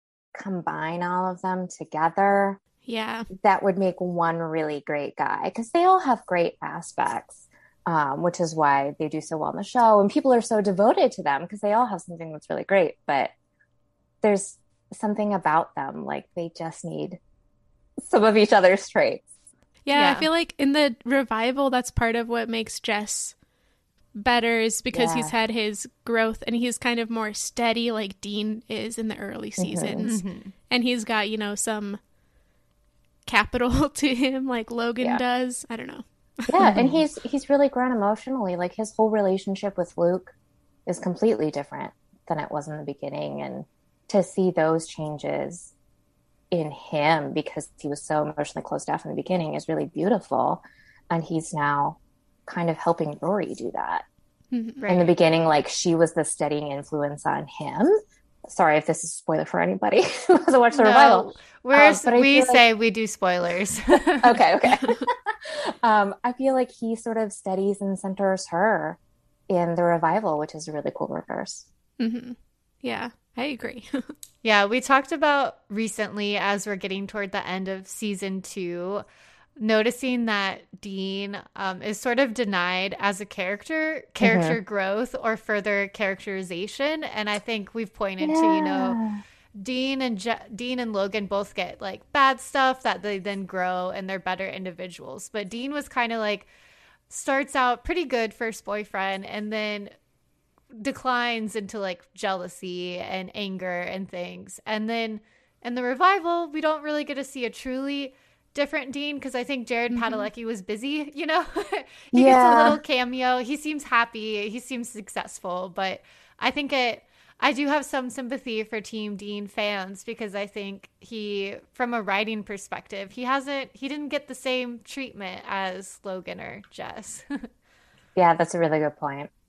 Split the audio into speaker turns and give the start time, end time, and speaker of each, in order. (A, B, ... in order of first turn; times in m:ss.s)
0:00.3-0:02.6 A
0:02.8-0:03.3 B
0:03.3-0:13.3 A
0:14.2-0:17.2 A
0:18.0-0:19.3 A
0:19.8-0:23.4 B
0:19.9-0:20.3 C
0:24.2-0:32.0 B
0:24.9-0:25.3 A
0:29.6-0:30.1 A
0:30.0-0:30.5 C
0:33.3-0:36.9 B
0:36.5-0:40.4 A
0:40.9-0:45.7 A
0:46.5-0:54.0 A
0:54.5-0:54.8 B
0:54.8-0:55.1 C
0:54.9-0:58.0 A
0:58.5-1:02.6 A
1:00.7-1:04.4 C
1:04.2-1:11.7 A
1:12.0-1:14.1 B
1:14.4-1:19.0 C
1:19.6-1:29.0 C
1:24.2-1:24.6 A
1:28.2-1:29.2 A
1:29.6-1:36.5 C
1:37.1-1:39.9 C
1:40.7-2:07.5 C
1:49.9-1:50.3 B
1:52.1-1:52.8 A
2:08.2-2:09.3 A